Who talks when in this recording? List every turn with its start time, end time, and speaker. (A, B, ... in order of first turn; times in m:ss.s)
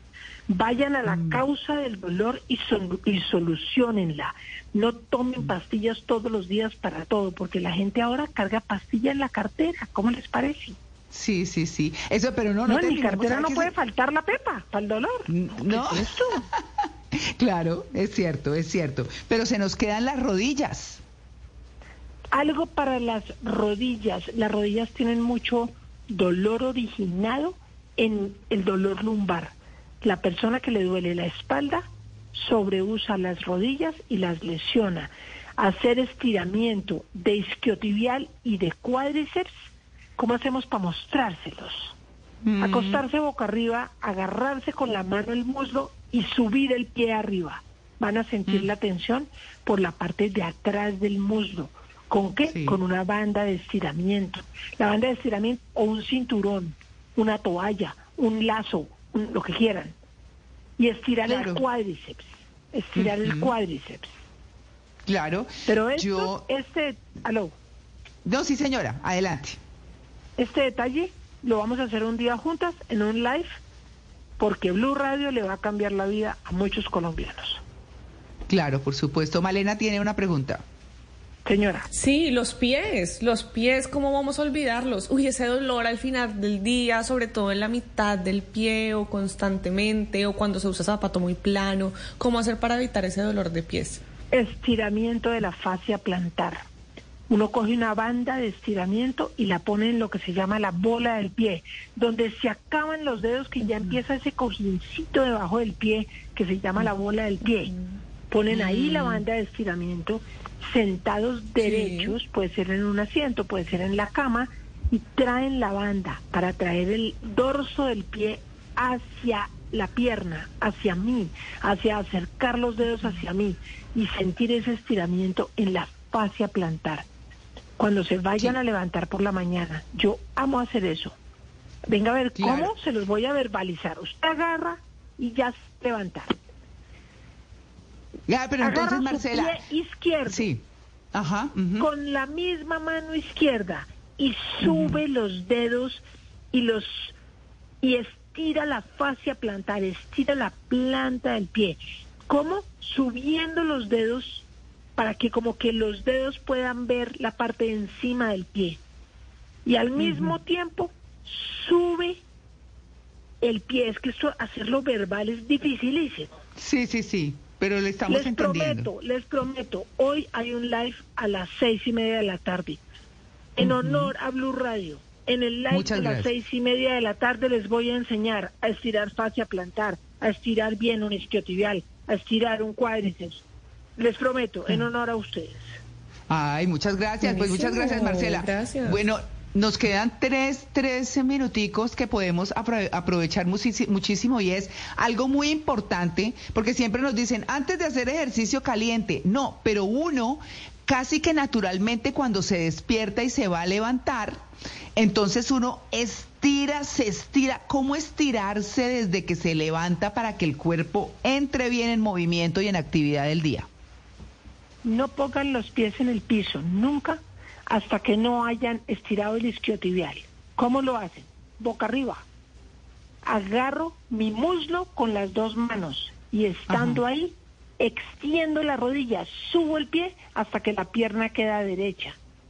0:00.5-0:10.8 A
0:01.0-0:01.4 B
0:11.1-0:13.7 B
0:12.6-0:16.4 A
0:15.3-0:21.0 B
0:22.3-0:39.5 A
0:40.2-0:41.9 A
0:42.4-0:43.0 B
0:42.6-0:59.9 A
0:52.5-0:52.8 B
1:00.8-1:04.1 A
1:01.2-1:01.6 B
1:02.9-1:03.5 B
1:05.0-1:06.5 B
1:05.7-1:07.5 A
1:08.2-1:09.6 B
1:10.4-1:13.5 A
1:14.4-1:17.6 A
1:18.5-1:20.6 B
1:21.4-1:21.9 A
1:21.9-1:34.0 C
1:34.3-1:36.6 A
1:37.3-1:47.7 A
1:48.3-2:07.0 A
1:48.5-1:49.2 B
2:07.8-2:11.2 A
2:11.9-2:16.4 A
2:12.3-2:12.7 B
2:18.3-2:19.6 B
2:18.6-2:20.5 A
2:20.3-2:20.6 B
2:21.1-2:21.9 B
2:21.8-2:27.2 A
2:24.6-2:25.0 B
2:27.8-2:34.4 A
2:35.0-2:38.8 A
2:39.6-2:42.2 A
2:40.0-2:40.3 B
2:43.4-2:46.3 A
2:46.6-2:48.9 B
2:48.1-2:52.8 A
2:53.6-3:03.4 A
2:53.6-2:54.1 B
2:55.7-2:56.3 B
3:04.0-3:05.7 A
3:06.3-3:24.4 B
3:07.2-3:09.0 C
3:25.0-3:33.7 B
3:34.8-3:42.2 A
3:43.2-3:52.2 A
3:46.7-3:47.0 B